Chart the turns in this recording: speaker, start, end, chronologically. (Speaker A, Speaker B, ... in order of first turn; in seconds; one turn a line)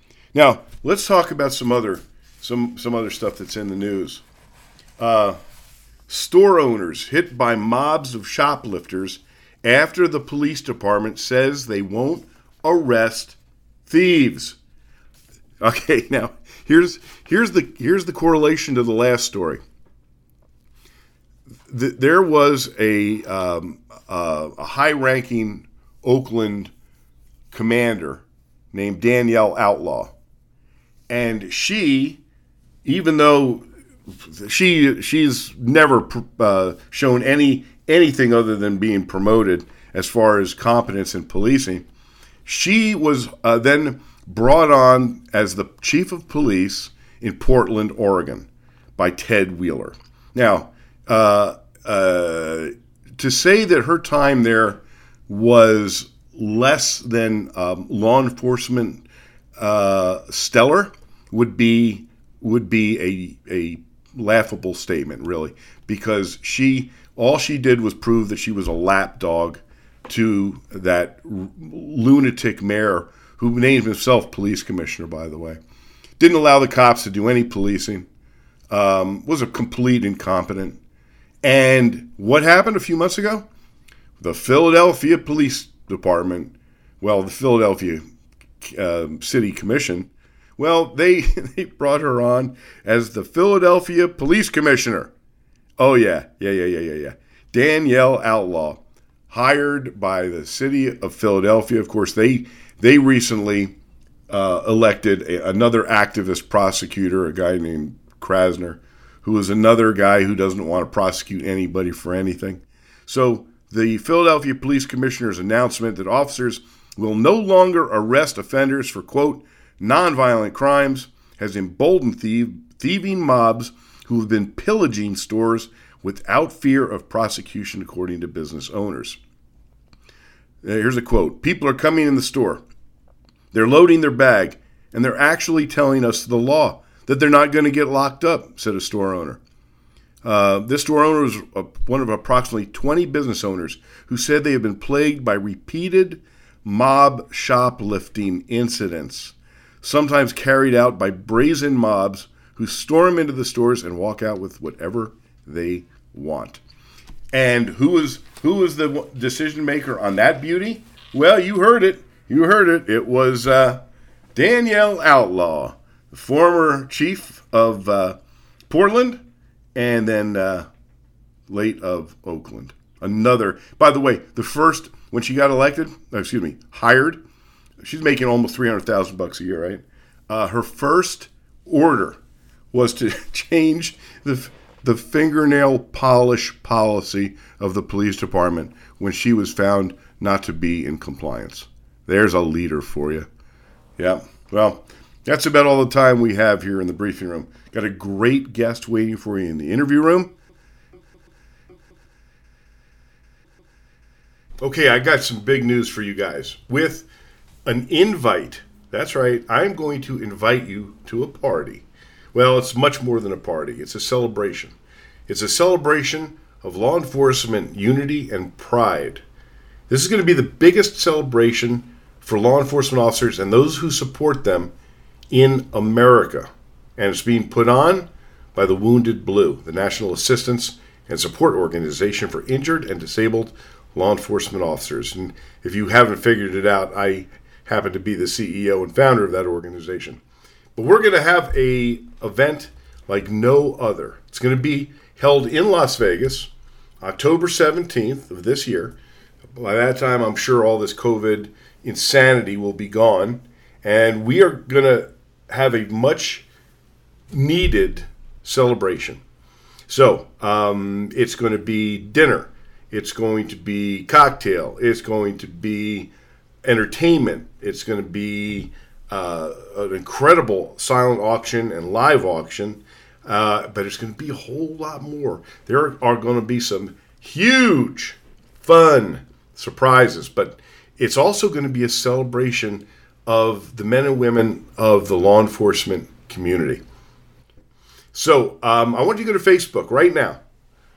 Speaker A: 0.3-4.2
Speaker A: 5.0-5.4
Speaker A: 6.1-14.6
Speaker A: 15.6-19.6
Speaker A: 21.7-26.7
Speaker A: 27.5-30.1
Speaker A: 31.1-32.2
Speaker A: 32.8-41.9
Speaker A: 42.4-59.0
Speaker A: 59.6-75.6
Speaker A: 76.2-78.1
Speaker A: 78.7-80.8
Speaker A: 81.4-83.5
Speaker A: 84.2-88.0
Speaker A: 88.6-95.1
Speaker A: 95.8-103.7
Speaker A: 104.3-129.2
Speaker A: 130.6-132.6
Speaker A: 133.5-139.4
Speaker A: 140.2-156.6
Speaker A: 157.3-163.8
Speaker A: 164.3-169.2
Speaker A: 169.7-170.7
Speaker A: 171.5-177.2
Speaker A: 177.8-182.2
Speaker A: 182.7-193.3
Speaker A: 194.0-200.3
Speaker A: 204.6-207.1
Speaker A: 207.7-214.7
Speaker A: 215.3-219.2
Speaker A: 219.9-224.7
Speaker A: 225.3-240.2
Speaker A: 240.8-246.5
Speaker A: 247.0-248.9
Speaker A: 249.5-256.4
Speaker A: 257.3-259.2
Speaker A: 259.9-266.1
Speaker A: 266.6-286.8
Speaker A: 288.1-290.4